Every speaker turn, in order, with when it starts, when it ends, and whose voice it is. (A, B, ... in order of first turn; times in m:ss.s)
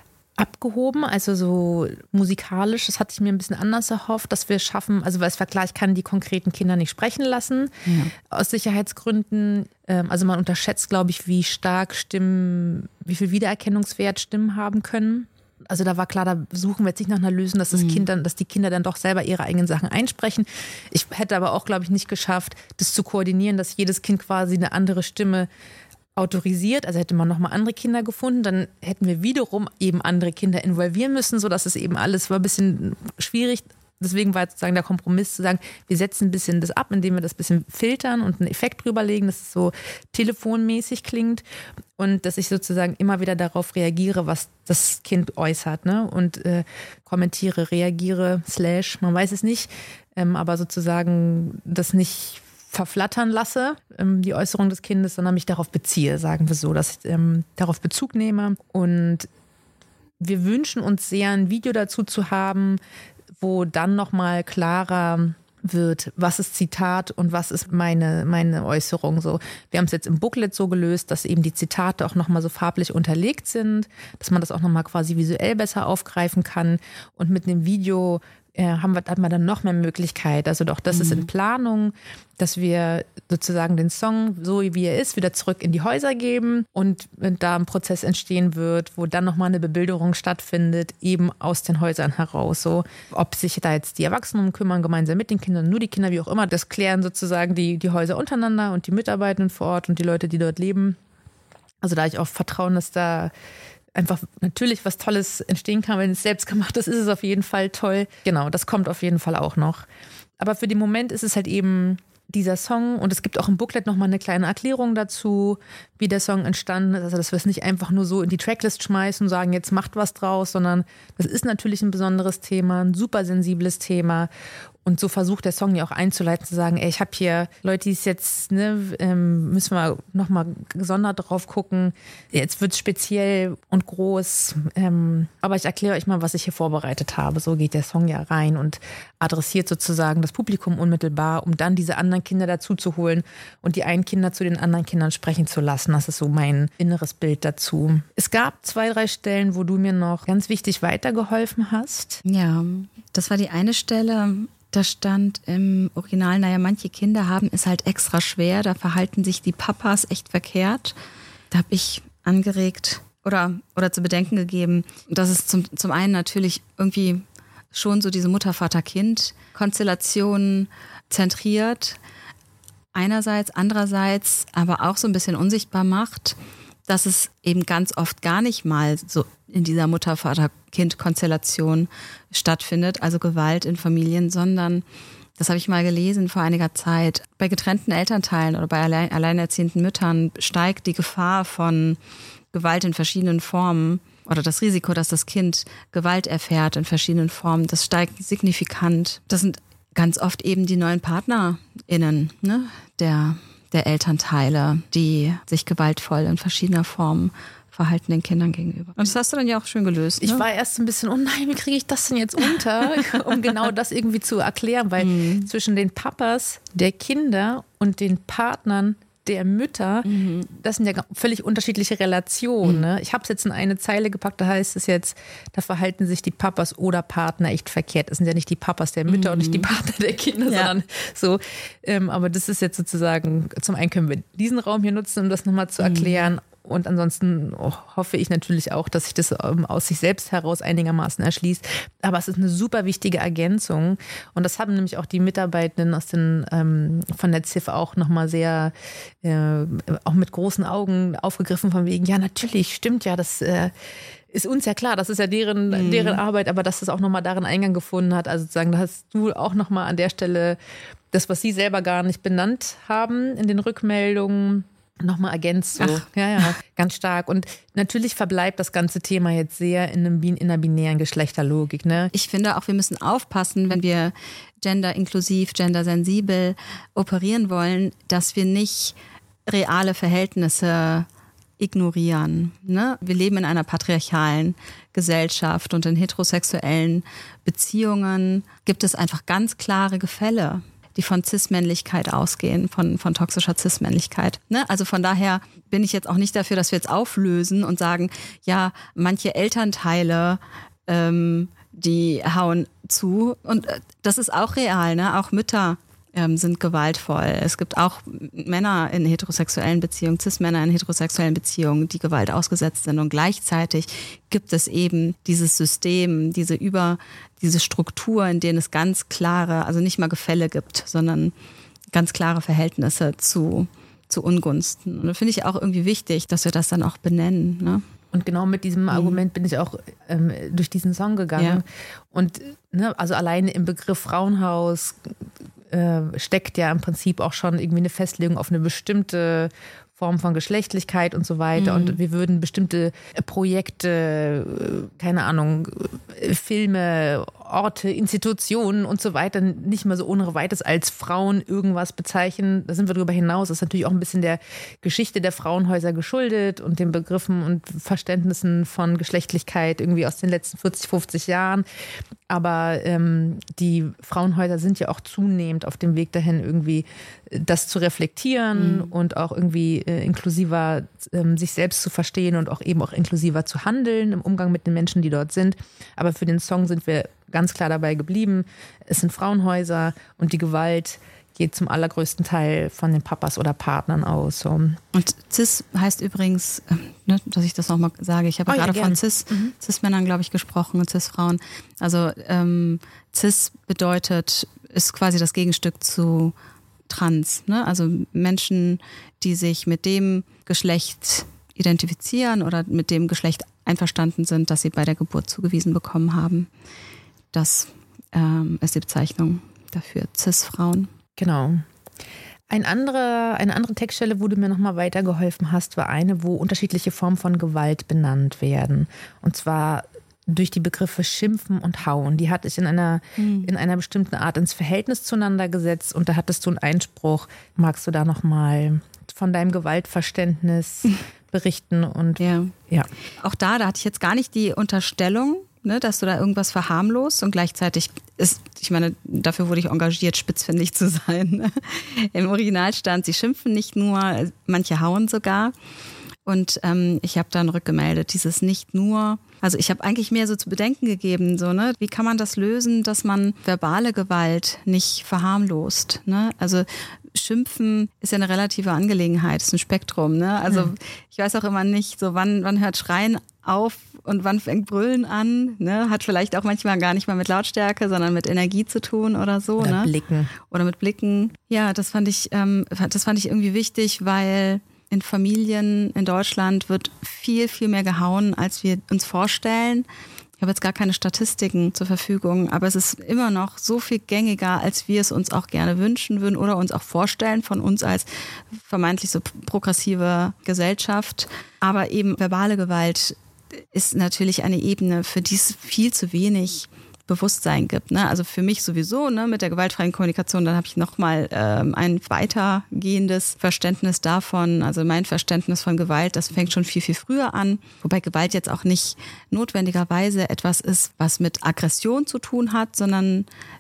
0:00.4-0:07.7 A
0:07.9-0:08.1 B
0:08.2-0:25.5 A
0:17.7-0:18.0 B
0:26.2-0:41.4 A
0:42.0-0:59.3 A
1:00.2-1:02.8 A
1:03.4-1:41.0 A
1:20.9-1:21.3 B
1:41.8-1:43.3 A
1:44.0-1:49.9 A
1:50.4-2:04.3 A
2:04.9-2:32.2 A
2:32.2-2:41.0 B
2:41.5-2:52.0 B
2:52.9-3:04.8 B
3:05.4-3:12.0 B
3:12.5-3:30.5 B
3:30.2-4:13.7 A
3:35.0-3:35.5 B
3:40.0-3:40.5 B
3:49.1-3:49.7 B
3:50.5-3:50.7 B
3:55.8-3:56.3 B
4:14.3-4:20.6 A
4:15.7-4:16.2 B
4:21.1-4:32.1 A
4:25.8-4:26.0 B
4:32.1-4:41.1 B
4:41.6-5:21.3 B
5:21.9-5:27.8 B
5:28.1-5:35.0 A
5:28.9-5:29.2 B
5:35.7-6:01.6 A
5:41.6-5:42.0 B
6:02.3-6:24.8 A
6:08.6-6:08.9 B
6:24.9-6:36.4 B
6:28.5-6:29.5 A
6:36.9-6:46.5 B
6:47.3-6:50.9 B
6:51.2-6:51.6 A
6:52.5-7:12.9 A
7:03.2-7:03.5 B
7:12.2-7:12.5 B
7:13.2-7:25.5 B
7:26.2-7:59.9 B
7:49.6-7:50.3 A
8:00.4-8:33.3 B